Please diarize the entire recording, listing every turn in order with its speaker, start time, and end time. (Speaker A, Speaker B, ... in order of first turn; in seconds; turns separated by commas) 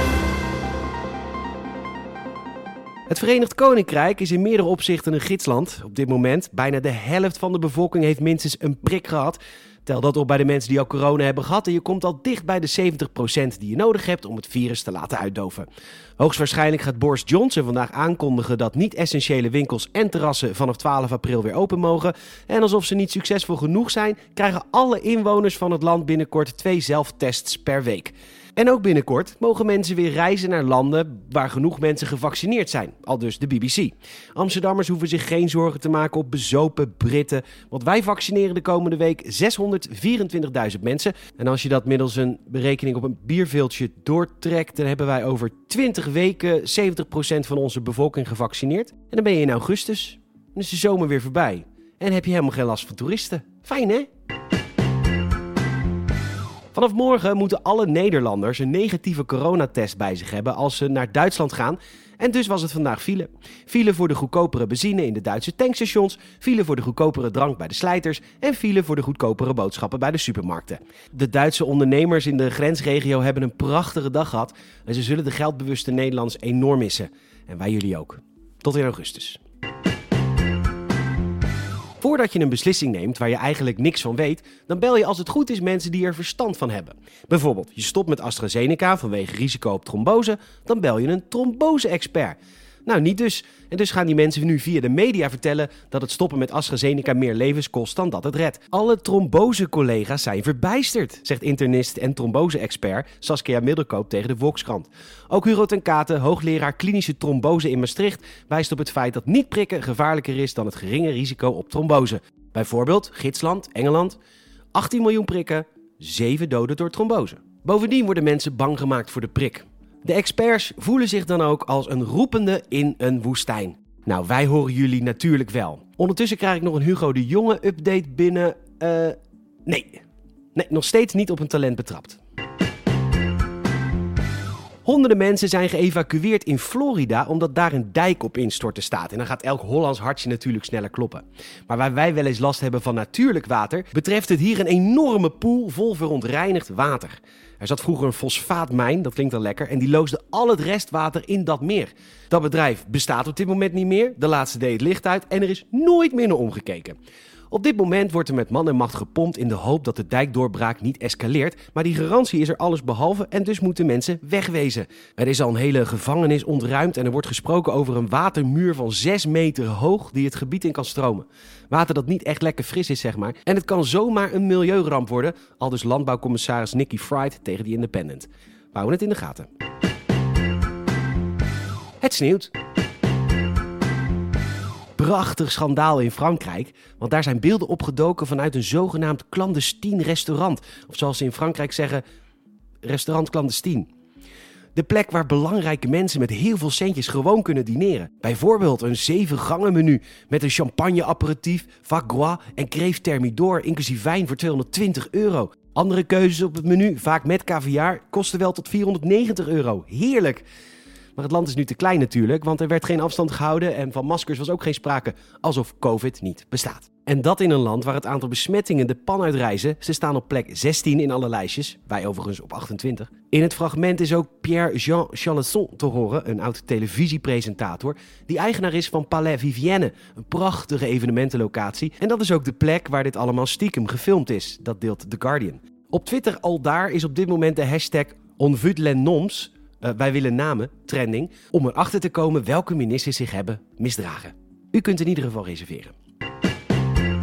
Speaker A: 3.1-15.7, Speaker A: 16.2-54.1, Speaker A: 56.7-79.4, Speaker A: 82.0-114.2, Speaker A: 114.7-130.0, Speaker A: 130.5-132.2, Speaker A: 134.8-157.0, Speaker A: 157.5-179.5, Speaker A: 182.0-182.5, Speaker A: 185.0-192.0, Speaker A: 192.8-193.9, Speaker A: 194.7-210.4, Speaker A: 211.2-245.9